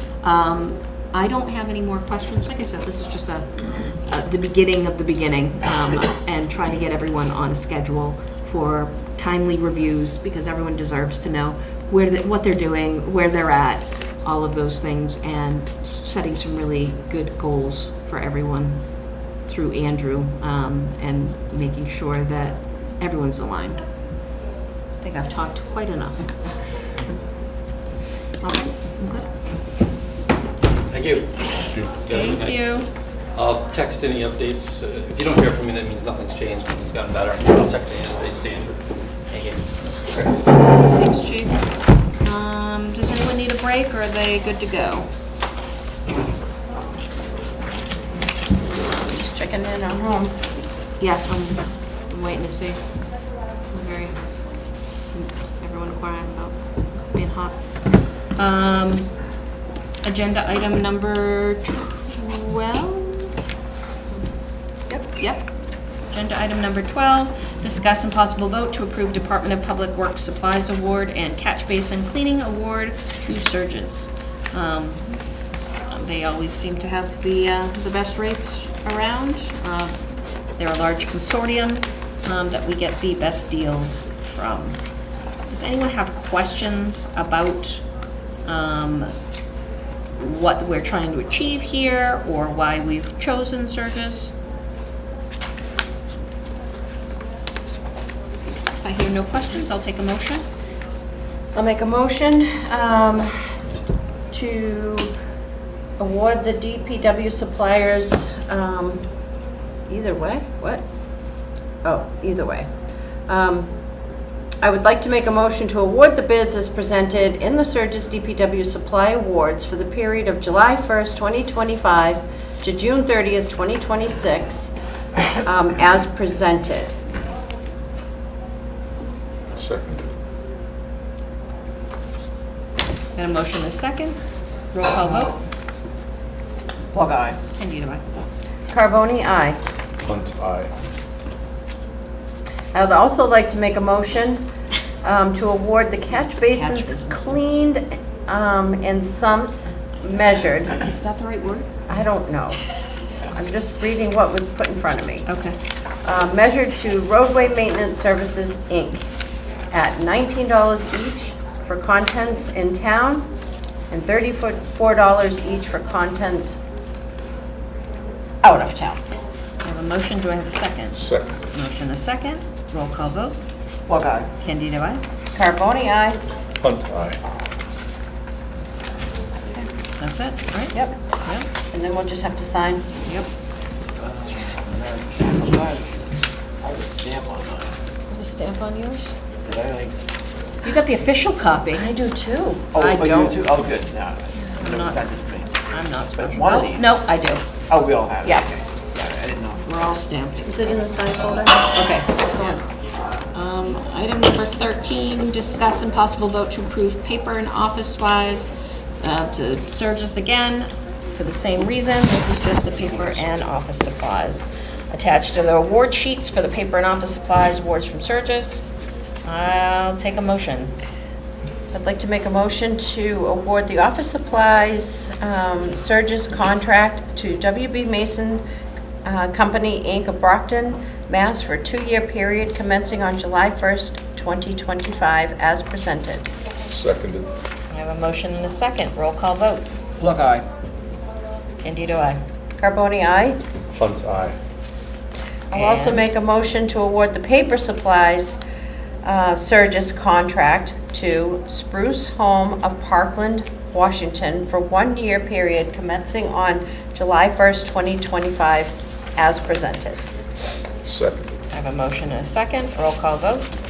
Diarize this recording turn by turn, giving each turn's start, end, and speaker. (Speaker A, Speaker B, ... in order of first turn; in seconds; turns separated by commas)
Speaker A: 0.2-23.8, Speaker A: 25.0-26.4, Speaker A: 28.4-29.3, Speaker B: 30.9-40.3, Speaker A: 32.1-32.9, Speaker A: 40.7-45.1, Speaker C: 48.8-50.4, Speaker A: 51.0-53.0, Speaker A: 53.7-54.2, Speaker A: 55.1-59.2, Speaker A: 60.0-63.3, Speaker A: 65.1-65.5, Speaker A: 66.0-75.2, Speaker A: 75.8-84.8, Speaker A: 85.5-87.8, Speaker A: 88.4-89.1, Speaker A: 90.2-94.3, Speaker A: 98.6-100.4, Speaker C: 101.5-103.3, Speaker C: 104.3-105.1, Speaker C: 106.0-109.0, Speaker C: 109.9-110.8, Speaker C: 111.8-112.7, Speaker C: 113.3-113.7, Speaker C: 114.6-124.7, Speaker C: 125.4-127.0, Speaker D: 129.5-130.1, Speaker A: 133.2-134.2, Speaker A: 134.7-135.4, Speaker E: 136.9-137.4, Speaker A: 137.6-138.0, Speaker C: 138.7-139.6, Speaker D: 140.0-140.7, Speaker C: 142.7-144.5, Speaker C: 145.0-150.8, Speaker A: 146.2-147.4, Speaker A: 150.7-151.7, Speaker C: 151.9-152.6, Speaker C: 153.3-155.3, Speaker A: 155.2-155.6, Speaker C: 156.0-159.0, Speaker C: 159.7-163.3, Speaker C: 163.9-166.6, Speaker C: 168.4-169.0, Speaker A: 169.6-173.4, Speaker D: 170.9-171.3, Speaker E: 173.9-174.3, Speaker A: 174.4-175.0, Speaker C: 175.3-176.2, Speaker D: 176.6-177.2, Speaker A: 180.0-181.5, Speaker C: 180.7-181.0, Speaker C: 181.7-182.8, Speaker E: 184.0-186.0, Speaker E: 186.6-187.7, Speaker A: 188.1-189.1, Speaker E: 189.4-189.9, Speaker A: 190.6-191.8, Speaker C: 191.7-192.7, Speaker E: 192.7-195.5, Speaker A: 192.8-193.4, Speaker A: 194.4-195.0, Speaker A: 195.6-197.5, Speaker E: 196.2-196.9, Speaker E: 197.7-199.6, Speaker A: 198.2-198.5, Speaker A: 199.6-200.8, Speaker C: 200.4-202.6, Speaker A: 201.6-202.6, Speaker A: 203.3-218.6, Speaker A: 219.2-220.7, Speaker C: 221.7-228.4, Speaker C: 229.0-236.3, Speaker D: 236.7-237.3, Speaker A: 237.7-239.7, Speaker E: 240.0-240.4, Speaker A: 241.6-242.2, Speaker C: 242.6-243.4, Speaker D: 243.7-244.3, Speaker C: 245.5-248.4, Speaker A: 245.5-246.1, Speaker C: 249.0-260.1, Speaker D: 260.8-261.4, Speaker A: 261.5-263.5